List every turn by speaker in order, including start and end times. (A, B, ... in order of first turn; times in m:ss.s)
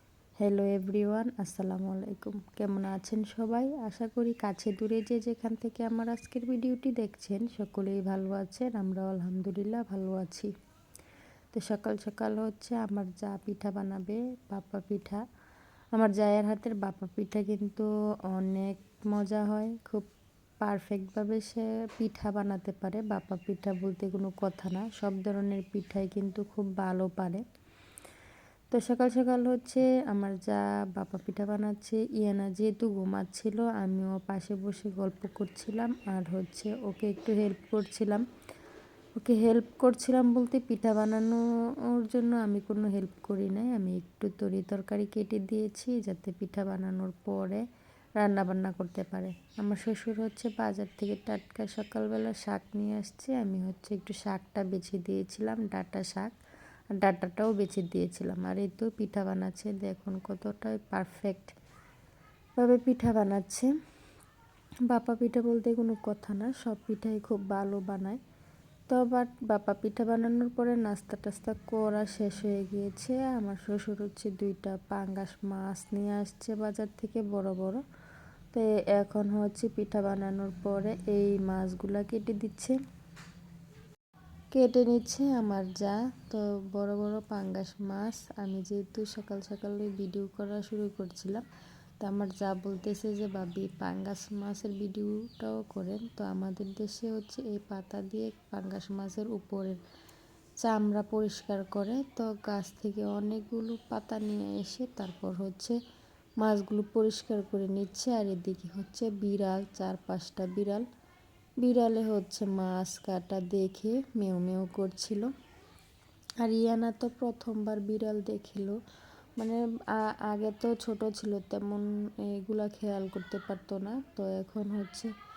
0:00.4-0:10.5 A
0:11.5-0:15.2 A
0:15.9-0:20.1 A
0:20.6-0:27.4 A
0:28.7-0:38.2 A
0:39.2-0:47.6 A
0:48.2-0:56.3 A
0:56.9-1:01.5 A
1:02.6-1:03.7 A
1:04.9-1:08.2 A
1:08.9-1:17.8 A
1:18.5-1:22.8 A
1:24.5-1:31.4 A
1:32.0-1:39.8 A
1:40.6-1:45.8 A
1:46.4-1:50.8 A
1:51.6-1:55.3 A
1:56.4-1:58.8 A
1:59.4-2:05.1 A